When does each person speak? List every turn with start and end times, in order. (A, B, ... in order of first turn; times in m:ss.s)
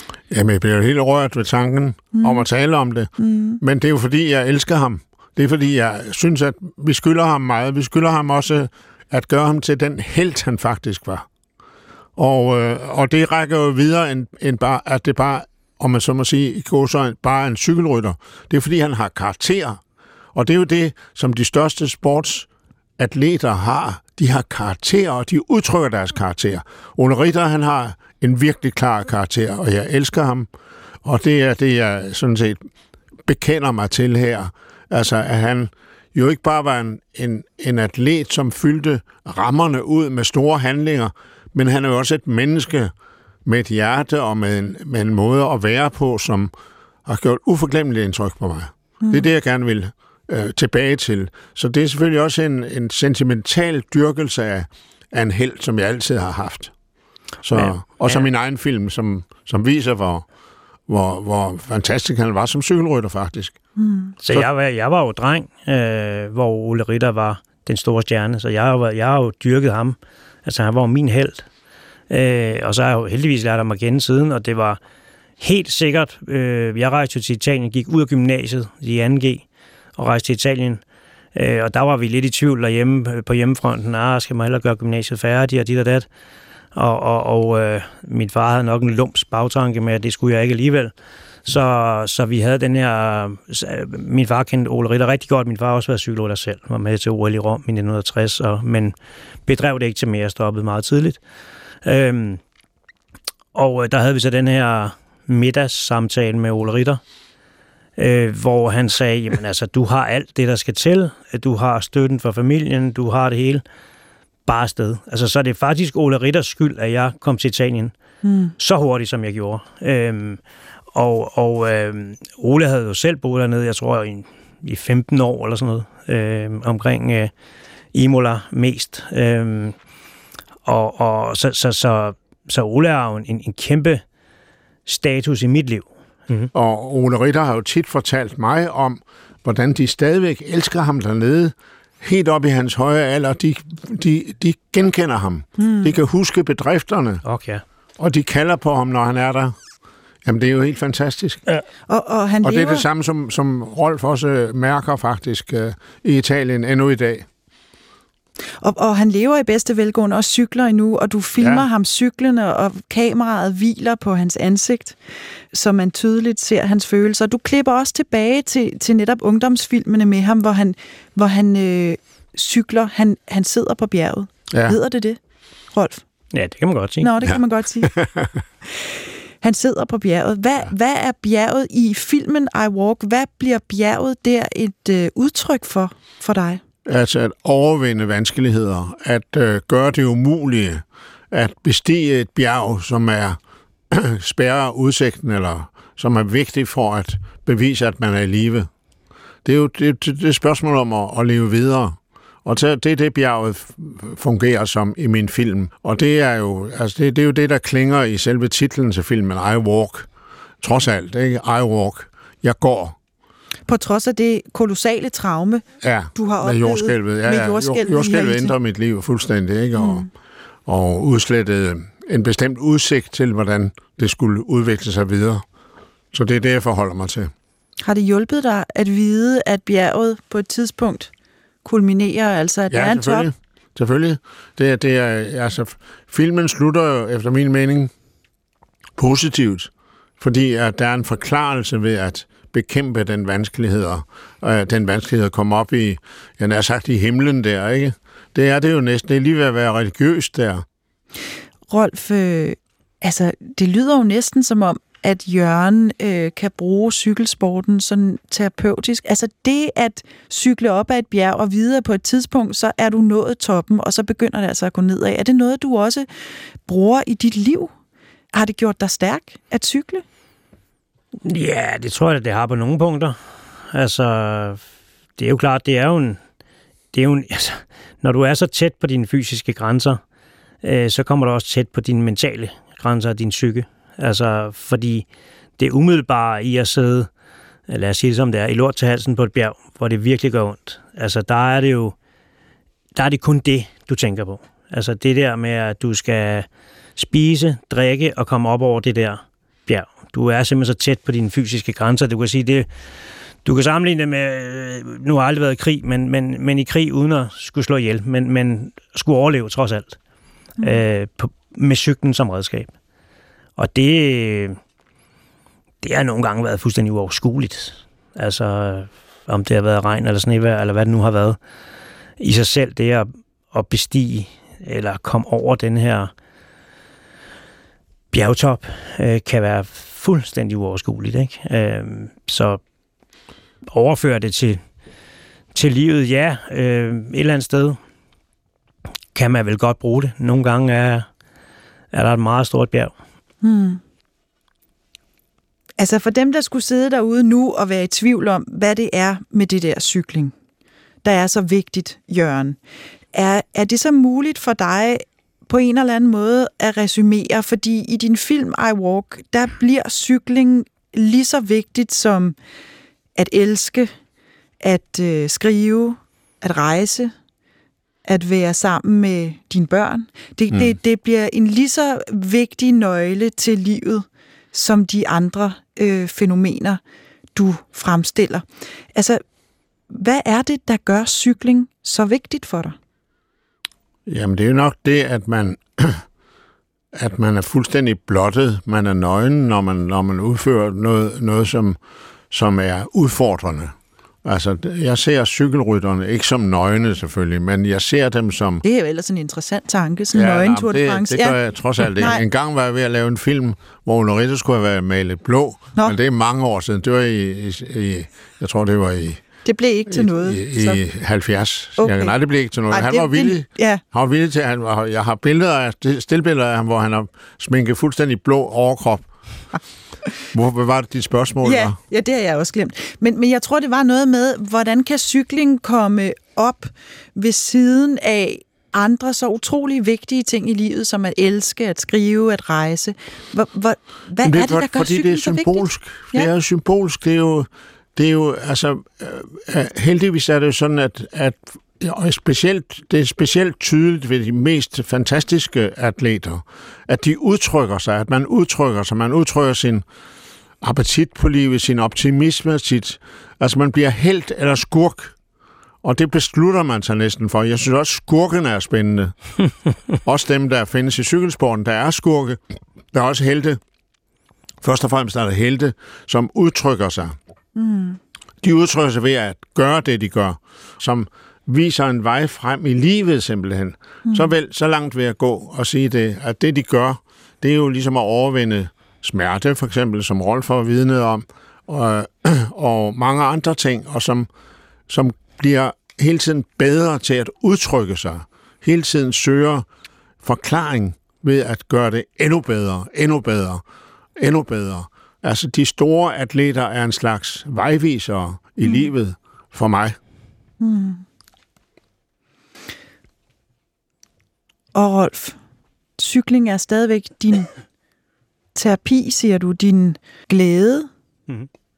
0:00.3-0:11.3 A
0:02.1-0:02.5 B
0:03.2-0:03.6 B
0:12.2-0:19.8 A
0:20.3-0:30.5 A
0:31.0-0:32.6 A
0:33.3-0:42.9 A
0:43.4-0:46.5 A
0:47.1-0:56.7 A
0:49.0-0:49.3 B
0:57.4-1:00.3 A
0:57.5-0:58.2 C
1:00.9-1:03.6 A
1:03.8-1:04.2 B
1:04.2-1:11.5 C
1:12.1-1:14.8 C
1:15.4-1:19.4 C
1:20.0-1:20.8 C
1:21.4-1:26.1 C
1:26.7-1:30.9 C
1:31.4-1:39.0 C
1:39.5-1:41.2 C
1:41.8-1:42.4 C
1:43.5-1:47.0 C
1:48.0-1:53.6 C
1:54.5-1:57.9 C
1:58.2-1:58.6 B
1:58.6-2:00.4 C
2:00.9-2:07.3 C
2:07.9-2:09.8 C
2:10.6-2:14.0 C
2:14.9-2:16.5 C
2:16.5-2:27.2 A
2:25.6-2:25.9 B
2:27.2-2:27.6 C
2:28.0-2:29.5 A
2:30.2-2:31.4 A
2:31.9-2:32.9 B
2:32.4-2:37.3 A
2:38.6-2:45.0 B
2:41.4-2:41.6 A
2:45.5-2:55.2 B
2:55.7-2:56.0 B
2:56.3-2:57.1 C
2:57.0-2:57.9 B
2:57.3-2:58.4 A
2:58.7-3:06.6 B
3:06.8-3:13.4 A
3:13.9-3:18.7 A
3:19.4-3:30.1 A
3:30.6-3:33.0 A
3:33.7-3:38.6 B
3:35.8-3:40.1 A
3:39.8-3:40.1 B
3:40.7-3:45.4 A
3:46.1-3:47.3 A
3:47.8-3:51.1 B
3:51.6-3:53.3 B
3:52.7-3:57.9 A
3:59.0-4:10.6 A
4:11.7-4:26.1 B
4:26.6-4:27.7 B
4:28.3-4:30.0 B
4:31.2-4:33.2 C
4:33.7-4:34.6 C
4:35.2-4:36.2 C
4:36.9-4:40.0 C
4:40.6-4:45.1 C
4:45.6-4:47.1 C
4:47.7-4:52.0 C
4:53.0-5:02.7 C
5:03.4-5:10.0 C
5:10.6-5:12.7 C
5:13.6-5:14.6 C
5:15.8-5:21.4 C
5:22.2-5:26.1 C
5:28.1-5:32.6 C
5:33.7-5:34.6 C
5:35.5-5:37.8 C
5:39.1-5:41.1 C
5:41.9-5:42.9 C
5:43.4-5:43.8 B
5:45.8-5:50.3 B
5:51.0-5:52.6 B
5:53.1-6:02.4 B
6:03.2-6:03.9 B
6:04.6-6:07.1 B
6:08.0-6:16.8 B
6:10.5-6:10.8 A
6:17.4-6:19.2 B
6:19.9-6:22.8 B
6:24.1-6:26.0 A
6:26.9-6:31.8 A
6:32.3-6:38.6 A
6:38.6-6:41.4 B
6:40.1-6:49.2 A
6:42.0-6:42.2 B
6:49.4-6:50.8 B
6:49.9-6:59.1 A
6:51.8-6:52.2 B
6:52.7-6:53.8 B
7:00.3-7:01.8 A
7:01.4-7:16.3 B
7:14.2-7:29.8 A
7:30.6-7:35.2 A
7:35.8-7:39.1 A
7:40.0-7:42.4 A
7:42.9-7:43.6 A
7:44.6-7:47.2 A
7:47.6-7:48.0 B
7:48.4-8:04.3 A
7:54.1-7:54.3 B
8:04.9-8:09.6 A
8:10.2-8:13.6 A
8:14.2-8:20.0 A
8:18.6-8:18.9 B
8:20.6-8:21.0 B
8:24.8-8:25.4 B
8:26.0-8:27.5 B
8:28.6-8:30.9 B